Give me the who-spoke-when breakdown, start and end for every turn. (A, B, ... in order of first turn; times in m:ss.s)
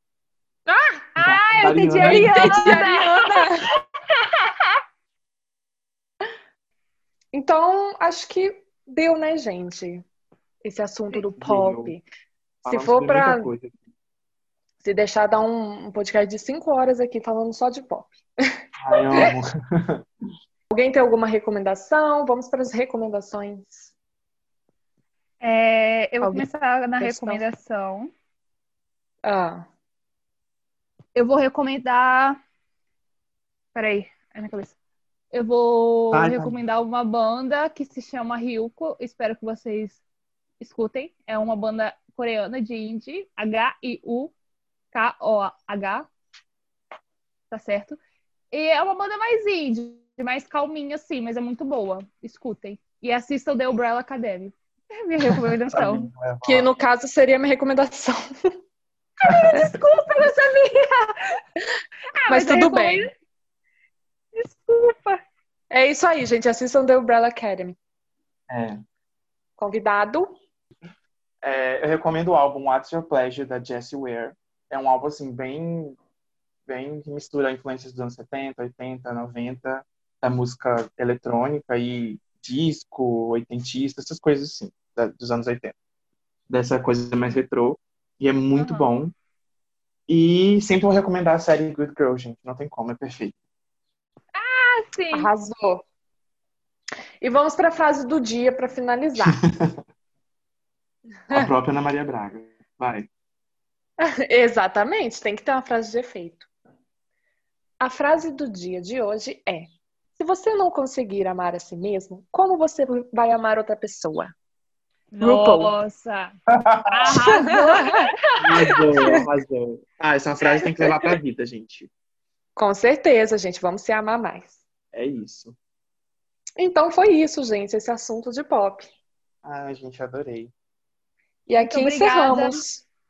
0:00.7-0:01.0 A
0:01.2-0:03.4 B
0:01.2-0:02.8 C
0:02.0-0:03.6 A
0:07.3-0:10.0 A
0:10.6-0:12.0 A
0:11.3-0:11.9 C
0:12.6-0:13.7 C
0:12.7-0:13.5 A
0:14.8-0:18.2 A
0:18.8-0:20.0 C
0:18.9-0:19.3 A
0:20.7-0:23.9 A
0:25.4-0:28.1 B
0:26.2-0:26.5 A
0:27.0-0:27.4 A
0:29.2-0:29.6 A
0:31.1-0:32.4 B
0:33.7-0:34.8 B
0:35.3-0:40.0 B
0:36.1-0:36.6 C
0:40.6-0:44.3 B
0:44.9-0:46.0 B
0:47.5-0:48.0 B
0:48.5-0:56.1 B
0:55.3-0:56.7 C
0:56.4-0:58.2 A
0:59.2-1:01.4 B
0:59.2-0:59.6 C
1:02.2-1:03.1 B
1:02.3-1:03.1 A
1:04.3-1:05.2 B
1:05.7-1:07.8 A
1:08.5-1:08.8 C
1:09.6-1:10.3 A
1:11.4-1:16.0 C
1:16.7-1:25.7 C
1:26.5-1:29.1 C
1:28.5-1:28.9 B
1:30.1-1:33.4 C
1:34.3-1:35.3 B
1:35.1-1:35.8 A
1:37.2-1:39.4 A
1:39.2-1:39.7 C
1:41.3-1:43.1 C
1:44.0-1:46.5 A
1:47.8-1:54.3 A
1:55.1-1:56.3 B
1:55.2-1:55.7 A
1:56.5-1:57.2 C
1:56.9-1:58.8 B
1:57.3-1:58.0 A
1:58.4-2:01.9 C
2:00.5-2:01.1 A
2:02.6-2:04.6 A
2:04.9-2:05.6 C
2:06.6-2:08.9 A
2:09.4-2:10.5 C
2:11.5-2:12.8 A
2:11.6-2:12.6 B